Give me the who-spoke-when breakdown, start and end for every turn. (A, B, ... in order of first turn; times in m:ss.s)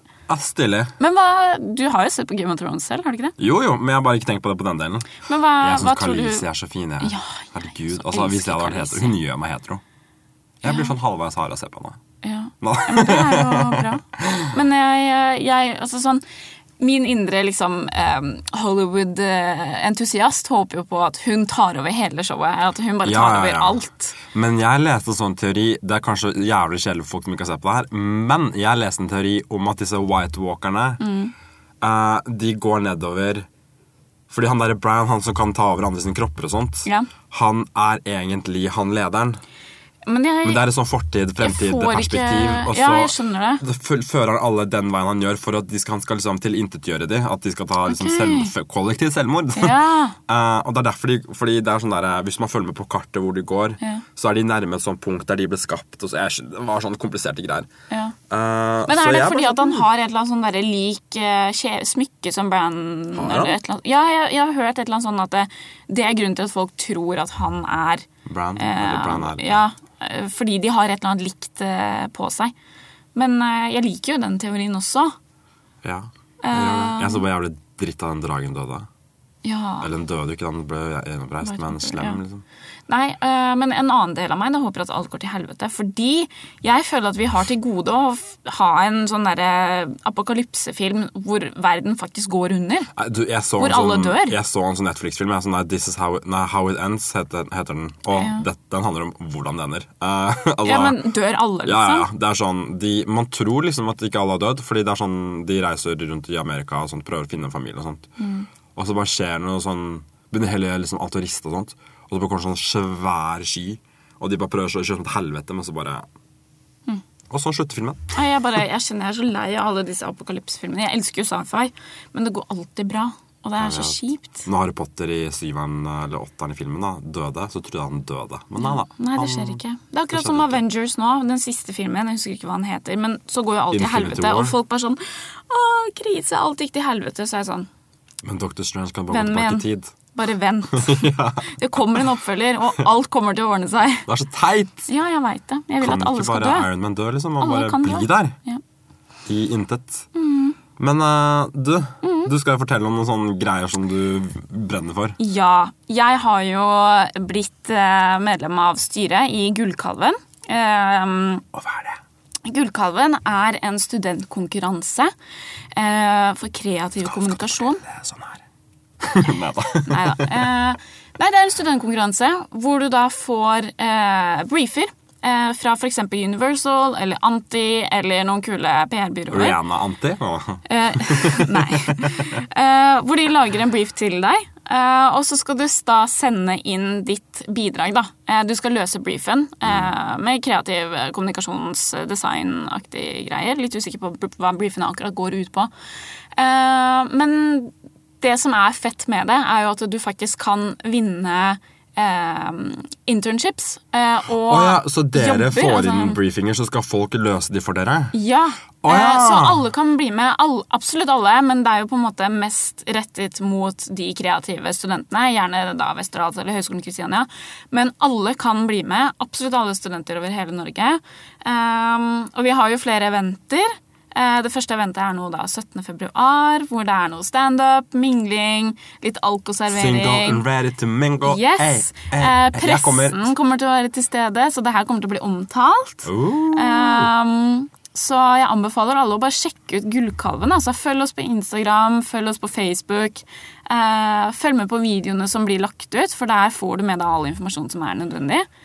0:00.3-0:00.9 A
0:01.0-0:03.3 B
0:03.4-0:09.8 A
0:05.2-0:06.4 B
0:07.0-0:09.1 B
0:10.6-0:12.0 A
0:10.6-0:10.9 B
0:12.2-0:16.2 B
0:12.6-0:14.6 A
0:16.8-0:24.2 B
0:23.0-0:31.0 A
0:31.0-0:31.3 B
0:31.8-0:33.5 A
0:34.3-0:39.4 A
0:36.8-0:37.1 B
0:40.0-0:40.6 B
0:40.4-0:57.7 A
0:41.4-0:43.6 B
0:47.8-0:48.5 B
0:49.6-0:50.2 B
0:53.8-0:54.0 B
0:57.9-0:58.2 B
0:58.3-0:59.8 A
0:58.9-1:12.5 B
1:03.1-1:03.6 A
1:08.2-1:09.6 A
1:13.1-1:15.1 B
1:15.8-1:18.9 A
1:16.4-1:17.2 B
1:19.4-1:19.9 B
1:19.8-1:22.4 A
1:21.4-1:22.2 B
1:22.9-1:32.9 B
1:33.0-1:41.1 A
1:33.6-1:34.4 B
1:38.1-1:38.4 B
1:40.6-1:42.1 B
1:41.6-1:48.1 A
1:48.2-1:48.5 B
1:48.7-1:56.0 A
1:57.3-1:58.2 A
1:58.1-2:04.4 B
2:03.6-2:09.6 A
2:08.6-2:17.7 B
2:10.1-2:10.6 A
2:13.7-2:14.6 A
2:18.2-2:19.9 A
2:19.1-2:24.0 B
2:20.7-2:22.1 A
2:24.1-2:24.9 A
2:24.9-2:26.7 B
2:25.8-2:28.4 A
2:27.4-2:28.6 B
2:29.3-2:30.1 A
2:30.1-2:30.6 B
2:30.8-2:35.2 A
2:32.0-2:32.3 B
2:35.2-2:41.4 B
2:41.5-2:42.0 A
2:42.4-2:45.1 B
2:45.7-2:47.8 B
2:47.0-2:48.4 A
2:49.0-2:50.6 A
2:49.8-2:59.6 B
2:59.3-3:02.2 A
3:00.7-3:15.7 B
3:09.6-3:09.9 A
3:16.3-3:26.2 B
3:24.5-3:28.1 A
3:28.1-3:50.4 B
3:28.8-3:29.6 A
3:49.7-3:53.3 A
3:51.2-4:08.4 B
3:56.0-3:57.1 A